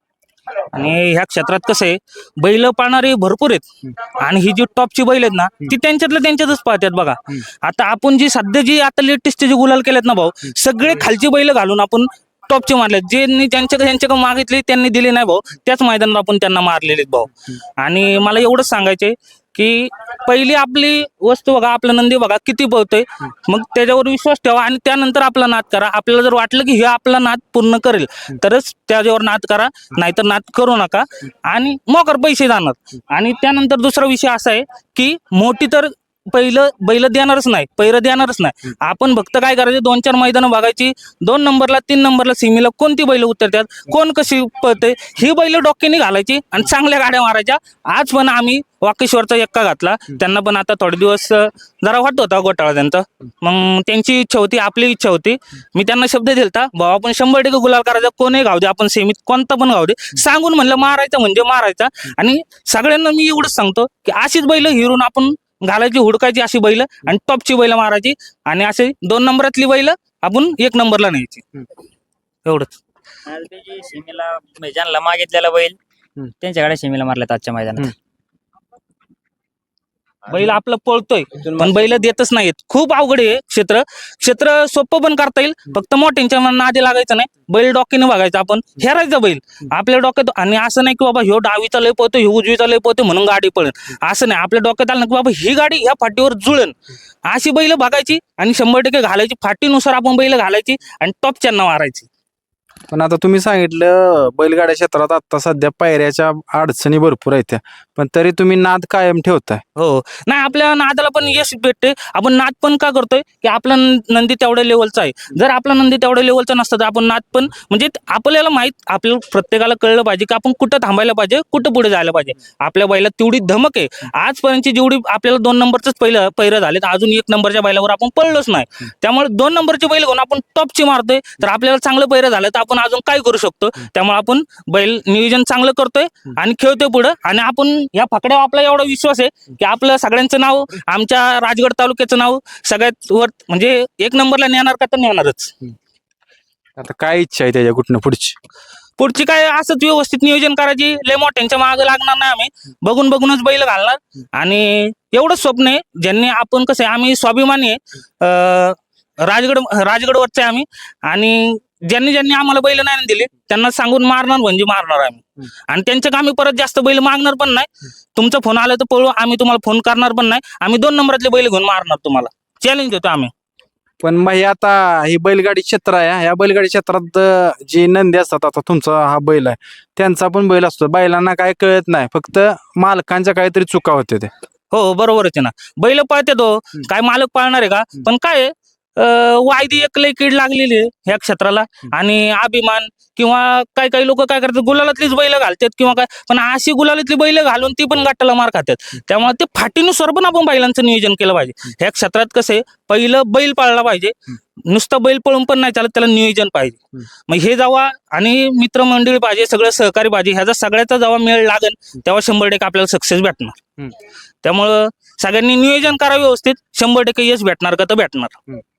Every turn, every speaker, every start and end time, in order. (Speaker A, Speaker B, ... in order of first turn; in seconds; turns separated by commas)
Speaker A: 0.7-3.6, Speaker A: 4.2-71.4, Speaker A: 72.5-72.8, Speaker B: 73.3-75.8, Speaker B: 76.4-77.9, Speaker A: 80.3-96.7, Speaker A: 97.3-102.1, Speaker C: 102.9-109.6, Speaker A: 109.8-145.5, Speaker C: 146.8-148.3, Speaker A: 149.0-173.3, Speaker C: 174.0-184.3, Speaker A: 184.7-204.1, Speaker A: 204.7-213.6, Speaker A: 214.4-218.4